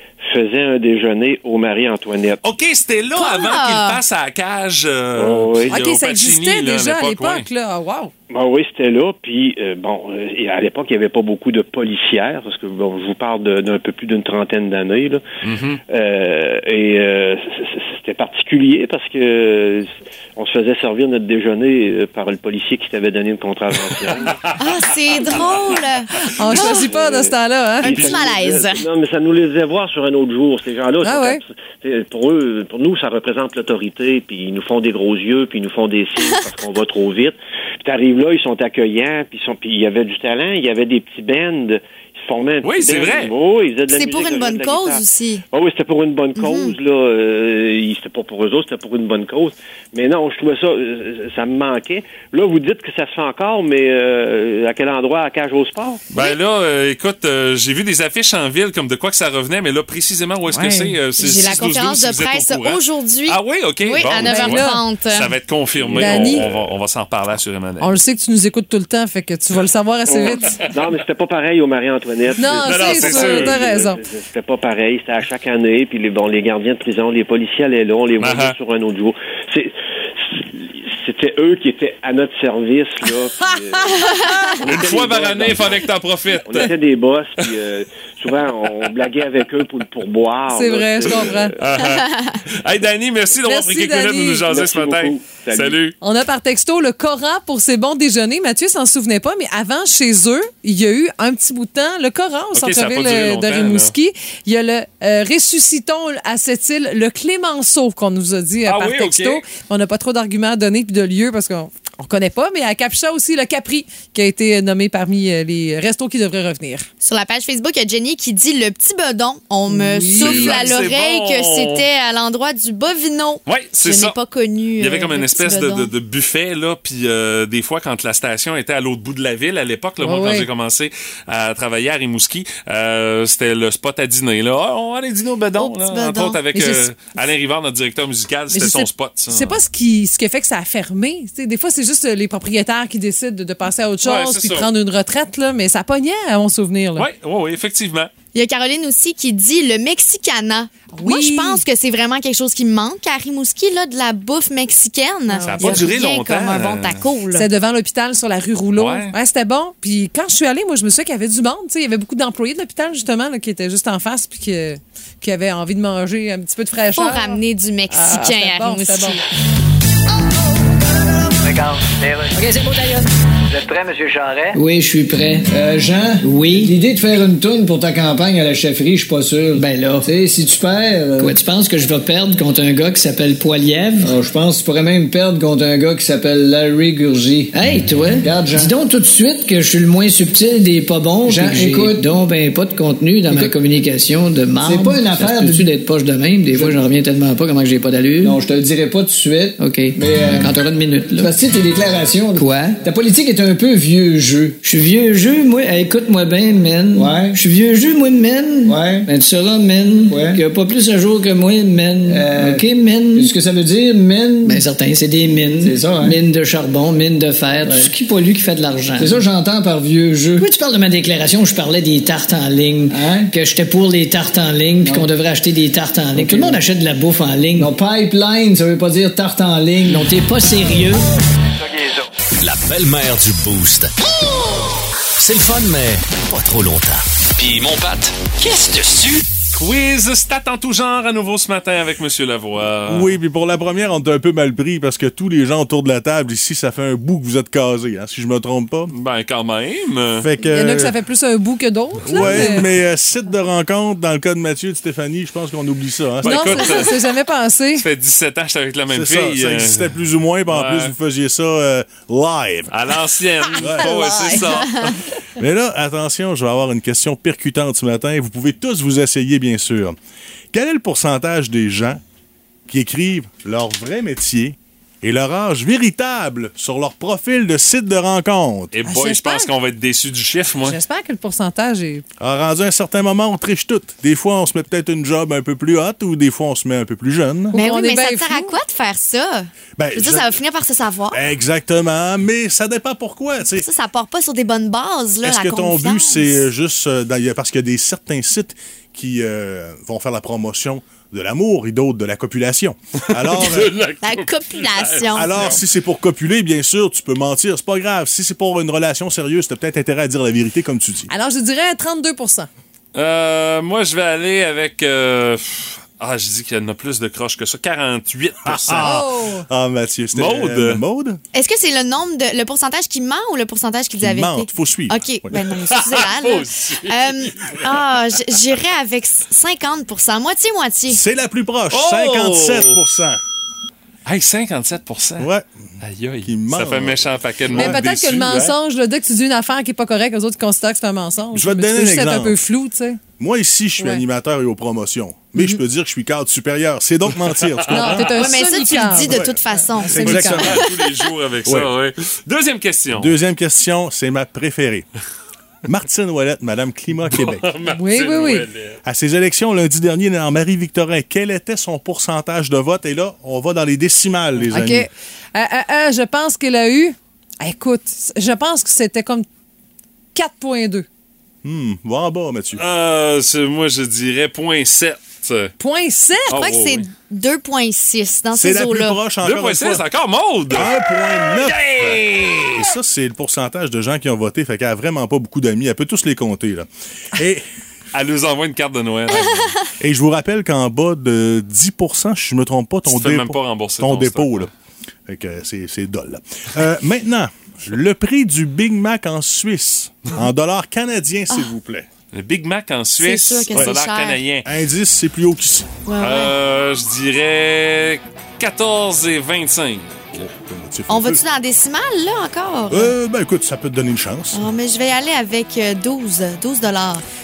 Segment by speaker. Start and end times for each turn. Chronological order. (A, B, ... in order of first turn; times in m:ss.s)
0:00.3-0:02.4 A
0:02.4-0:07.5 B
0:03.1-0:04.0 C
0:05.2-0:05.8 A
0:05.7-0:08.1 D
0:08.3-0:15.2 A
0:15.4-0:15.8 B
0:15.9-0:24.5 A
0:24.6-0:26.8 C
0:26.4-0:28.1 D
0:26.5-0:56.1 A
0:27.8-0:28.9 C
0:31.0-0:31.4 D
0:42.6-0:43.3 B
0:43.9-0:45.4 C
0:46.3-0:46.8 C
0:56.1-1:07.9 B
1:00.5-1:00.9 D
1:01.1-1:05.3 C
1:04.2-1:04.8 D
1:05.9-1:06.4 D
1:07.8-1:10.6 D
1:10.1-1:19.7 A
1:12.4-1:14.0 D
1:12.6-1:13.6 B
1:18.2-1:18.5 B
1:20.2-1:25.9 A
1:24.6-1:26.7 B
1:26.4-1:31.6 A
1:30.5-1:31.5 D
1:31.6-1:35.9 B
1:31.7-1:32.4 C
1:33.4-1:34.5 D
1:34.5-1:35.8 A
1:36.0-1:56.9 D
1:42.5-1:43.9 B
1:48.6-1:49.4 B
1:57.0-2:05.9 C
1:59.7-2:00.8 D
2:00.1-2:01.8 B
2:03.4-2:04.2 B
2:04.8-2:19.6 B
2:10.0-2:10.5 D
2:15.6-2:16.4 C
2:16.5-2:16.8 D
2:18.5-2:27.1 D
2:24.0-2:24.7 B
2:27.0-2:28.1 B
2:28.3-2:37.5 C
2:30.9-2:31.6 D
2:35.3-2:35.9 D
2:35.4-2:37.1 B
2:37.3-2:49.2 D
2:38.8-2:39.1 B
2:47.0-2:49.2 C
2:51.4-2:52.4 E
2:52.3-2:53.0 F
2:53.5-2:54.6 E
2:54.5-2:55.5 F
2:55.5-3:01.3 G
2:56.2-2:56.7 F
2:59.5-3:00.1 F
3:01.2-3:04.2 F
3:04.0-3:07.5 G
3:07.5-3:18.4 F
3:08.2-3:08.7 G
3:11.2-3:12.0 G
3:14.6-3:15.7 G
3:18.2-3:20.6 G
3:19.6-3:21.3 F
3:21.2-3:24.6 G
3:22.4-3:22.8 F
3:24.6-3:33.3 F
3:26.9-3:27.4 G
3:28.6-3:29.1 G
3:30.1-3:30.4 G
3:32.1-3:32.6 G
3:33.1-3:34.6 G
3:34.4-3:39.2 F
3:35.6-3:36.2 G
3:39.0-3:40.4 G
3:40.4-3:47.7 F
3:42.9-3:43.3 G
3:44.8-3:45.1 G
3:46.1-3:46.6 G
3:47.6-3:50.1 G
3:49.9-3:51.0 F
3:51.6-3:52.1 E
3:52.4-3:53.9 H
3:55.2-3:59.2 H
3:59.5-4:03.1 B
4:02.9-4:08.9 I
4:08.9-4:10.2 B
4:10.2-4:11.0 I
4:10.5-4:12.7 D
4:12.0-4:16.6 I
4:16.2-4:16.9 B
4:16.2-4:17.8 D
4:17.7-4:19.9 B
4:18.9-4:22.7 I
4:20.5-4:20.9 B
4:22.7-4:24.9 B
4:23.6-4:24.4 I
4:23.8-4:24.7 D
4:24.7-4:24.9 C
4:25.4-4:30.0 I
4:30.5-4:32.0 I
4:32.7-4:38.7 I
4:38.7-4:40.8 B
4:38.8-4:39.5 D
4:40.6-4:42.0 D
4:42.2-4:47.6 I
4:47.5-4:48.5 D
4:47.5-4:51.2 C
4:49.8-4:50.4 I
4:51.1-4:53.7 I
4:53.5-4:56.4 C
4:55.2-5:03.7 I
5:03.2-5:05.6 B
5:04.0-5:05.3 C
5:05.1-5:11.1 I
5:11.1-5:12.5 D
5:12.9-5:18.9 B
5:18.5-5:21.2 I
5:18.8-5:19.4 D
5:20.1-5:20.8 B
5:21.3-5:31.0 C
5:24.0-5:25.7 I
5:25.7-5:28.2 B
5:30.9-5:33.2 I
5:31.7-5:32.8 B
5:34.0-5:35.3 B
5:35.2-5:35.4 I
5:35.8-5:38.5 B
5:36.2-5:37.9 I
5:37.6-5:43.0 D
5:41.3-5:42.4 I
5:43.2-5:50.6 I
5:43.8-5:44.0 D
5:47.7-5:50.4 D
5:48.1-5:50.7 C
5:50.4-5:53.1 B
5:51.4-5:51.7 I
5:52.9-5:54.8 I
5:55.6-5:57.5 I
5:57.1-5:58.8 B
5:57.7-5:58.4 D
5:58.8-6:04.9 I
6:04.5-6:09.2 D
6:10.1-6:10.9 D
6:11.4-6:12.6 I
6:12.6-6:15.5 B
6:15.6-6:16.3 D
6:16.3-6:16.9 B
6:16.3-6:19.0 C
6:18.3-6:19.8 I
6:19.2-6:22.6 B
6:20.5-6:27.4 I
6:27.9-6:29.6 B
6:29.8-6:34.5 I
6:32.9-6:34.5 B
6:35.1-6:41.9 I
6:42.1-6:44.4 B
6:43.0-6:44.2 C
6:44.4-6:45.8 I
6:45.8-6:46.3 C
6:46.0-6:50.0 B
6:50.1-6:51.2 I
6:50.9-6:52.9 C
6:52.7-6:54.5 I
6:54.3-6:57.0 C